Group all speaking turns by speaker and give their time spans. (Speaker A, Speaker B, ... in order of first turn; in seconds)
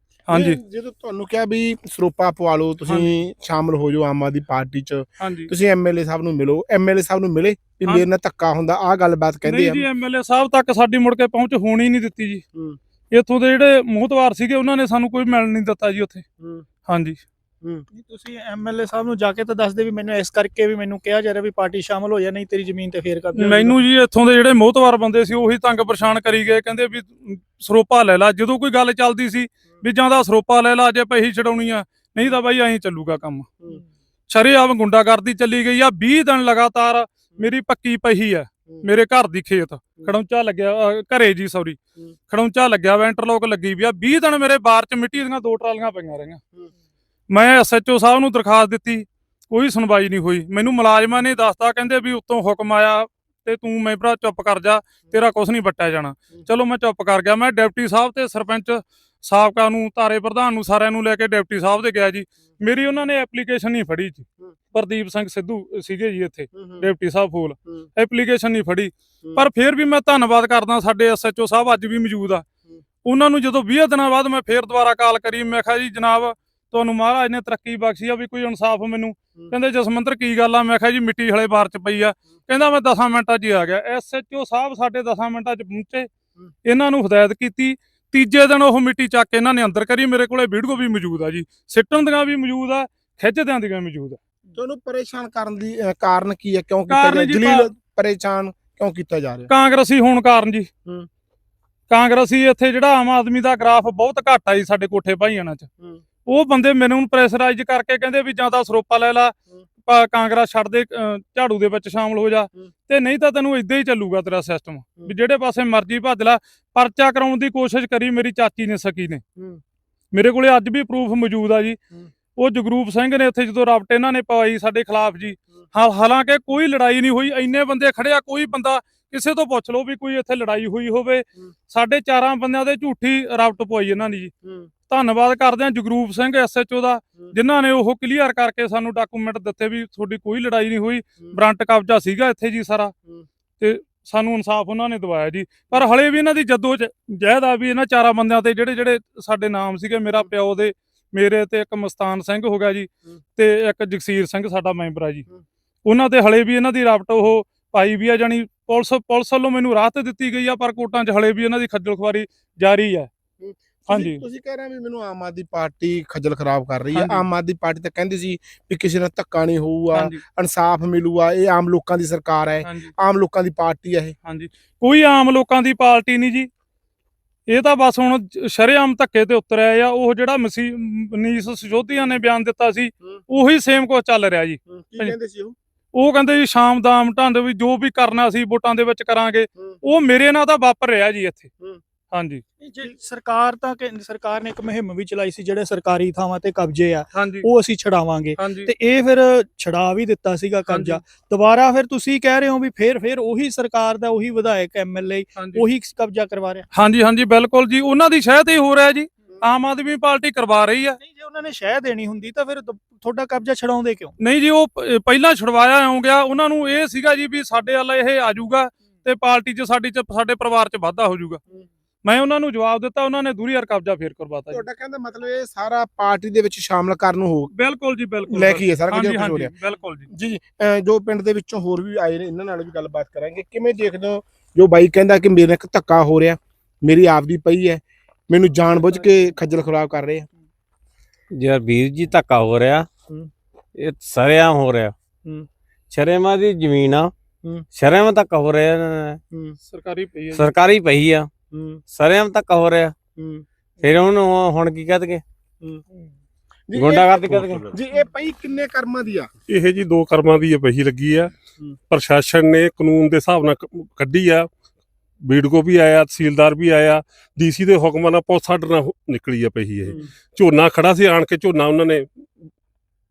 Speaker A: 0.3-0.6, 2.9-3.1, 5.2-5.5, 9.4-12.4, 13.1-16.2, 16.9-17.2, 23.4-33.5, 34.3-41.8, 42.3-46.4, 47.3-72.5, 73.0-86.1, 86.7-94.2, 96.9-97.7, 99.5-100.7, 101.9-105.7, 106.3-109.3, 109.9-119.2, 120.1-121.8, 122.4-134.3, 134.9-142.9, 143.6-155.3, 155.8-163.1, 163.9-164.2, 166.9-167.2, 169.9-170.2, 172.6-172.9, 174.2-176.5, 177.5-185.2, 185.9-191.5, 192.1-192.4, 197.1-197.5, 198.4-198.7, 200.7-201.0, 205.4-205.6, 206.7-211.0, 214.2-221.4, 222.0-224.6, 227.6-230.1, 249.7-250.5
Speaker B: 0.3-9.8, 16.4-16.6, 66.5-66.9, 94.6-99.5, 163.4-174.2, 184.7-185.6, 224.5-227.5, 228.3-229.5, 230.1-240.3, 249.3-249.6, 251.5-251.8, 253.2-253.4, 256.7-259.3
Speaker C: 17.9-23.8, 192.6-206.7, 211.0-214.1
Speaker D: 241.3-242.9, 243.8-244.9, 245.9-247.1, 247.7-249.2, 250.3-251.3, 251.9-252.9, 253.8-255.2, 256.7-257.8
Speaker E: 259.5-261.3, 261.9-264.5, 265.3-272.1